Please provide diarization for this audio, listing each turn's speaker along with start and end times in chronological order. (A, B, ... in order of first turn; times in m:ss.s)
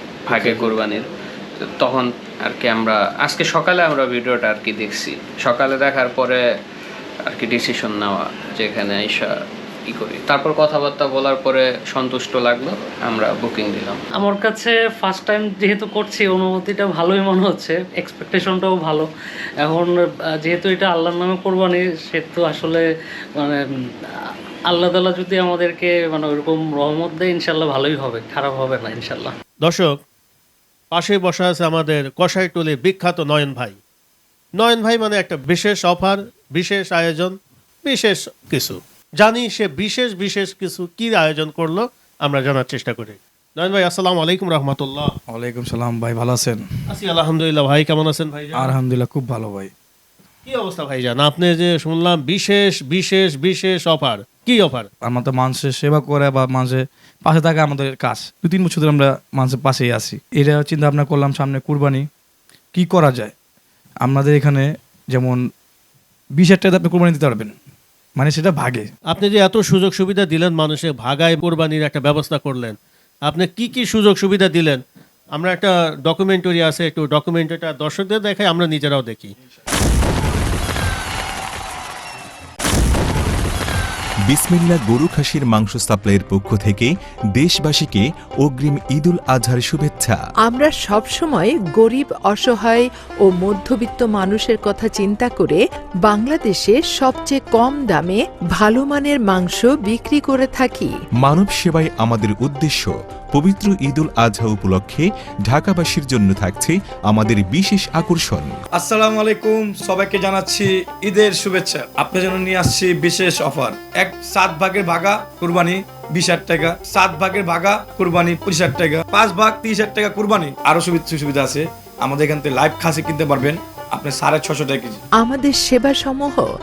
0:00.3-0:01.1 A
0:00.4-0:00.7 B
0:01.6-0:06.4 A
0:07.3-0:09.3 A
0:09.9-0:14.0 A
0:14.2-0:19.1 C
0:19.6-0:22.8 C
0:24.7-0:29.3 C
0:29.6-0:29.9 B
0:30.9-0:33.8 B
0:34.6-0:45.1 B
0:45.3-0:46.6 D
0:46.9-0:48.8 B
0:48.6-0:49.7 D
0:50.5-0:54.9 B
0:55.0-1:02.1 D
1:02.7-1:03.3 D
1:04.0-1:05.4 D
1:06.4-1:07.5 D
1:08.2-1:08.9 D
1:09.1-1:14.8 B
1:15.3-1:19.3 B
1:24.3-1:30.2 E
1:30.5-1:40.9 F
1:41.2-1:48.5 E
1:48.8-2:05.0 D
2:05.2-2:06.5 F